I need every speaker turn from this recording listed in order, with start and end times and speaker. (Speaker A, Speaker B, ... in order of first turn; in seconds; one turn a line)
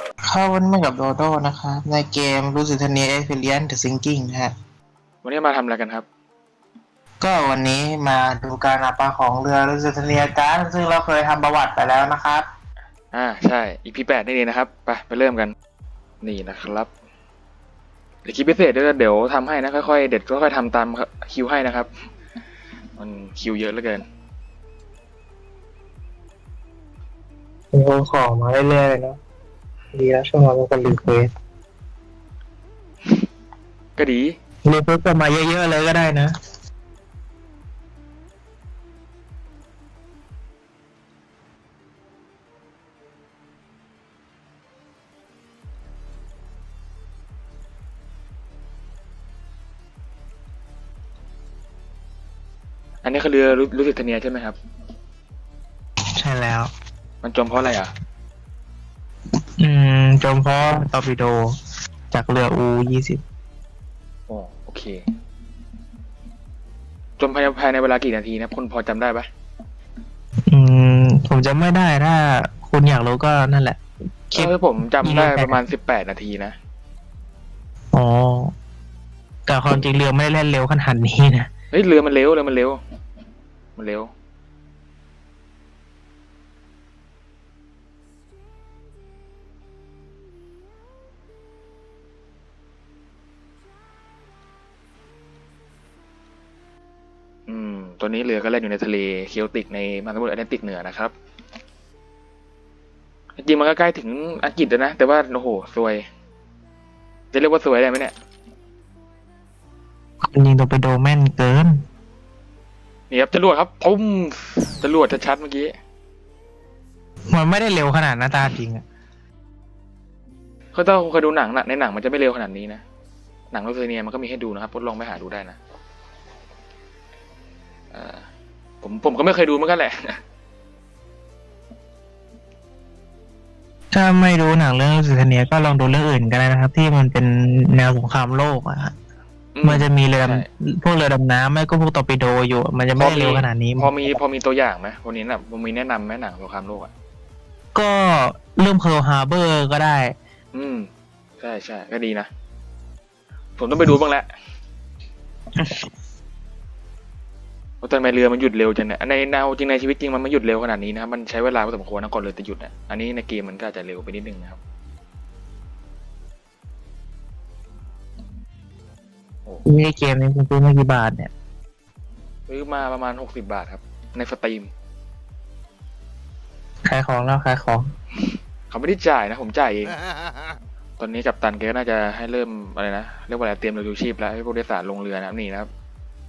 Speaker A: 0.2-4.5
Speaker B: 5.2-6.0
Speaker A: 7.2-12.4
Speaker B: 13.1-15.5
Speaker B: 16.2-16.9
Speaker B: 18.2-21.9
Speaker B: 23.0-24.0
Speaker A: 27.7-29.2
Speaker A: 29.9-31.3
Speaker B: 34.0-34.4
Speaker A: 34.6-36.3
Speaker B: 53.0-54.5
Speaker A: 56.2-56.7
Speaker B: 57.2-57.9
Speaker A: 59.6-61.4
Speaker A: 62.1-63.2
Speaker B: 64.3-65.0
Speaker B: 67.2-69.3
Speaker A: 70.5-73.8
Speaker B: 74.3-76.5
Speaker A: 75.0-75.6
Speaker A: 77.9-78.5
Speaker A: 79.5-81.5
Speaker B: 81.7-82.8
Speaker B: 83.8-84.1
Speaker B: 97.5-101.1
Speaker B: 103.4-106.0
Speaker B: 107.3-108.1
Speaker A: 110.2-111.8
Speaker B: 113.1-115.7
Speaker A: 117.3-118.8
Speaker B: 120.7-122.8
Speaker B: 123.5-125.6
Speaker B: 127.9-128.2
Speaker B: 128.8-130.2
Speaker A: 133.9-138.9
Speaker B: 139.5-140.4
Speaker A: 139.6-144.2
Speaker B: 143.0-146.9
Speaker A: 147.7-150.1
Speaker B: 150.5-150.9
Speaker B: 151.4-152.3
Speaker B: 153.6-154.3
Speaker A: 155.6-155.9
Speaker B: 157.8-164.6
Speaker A: 169.7-171.3
Speaker B: 172.5-174.7
Speaker A: 176.8-177.9
Speaker B: 178.7-180.0
Speaker B: 181.0-185.7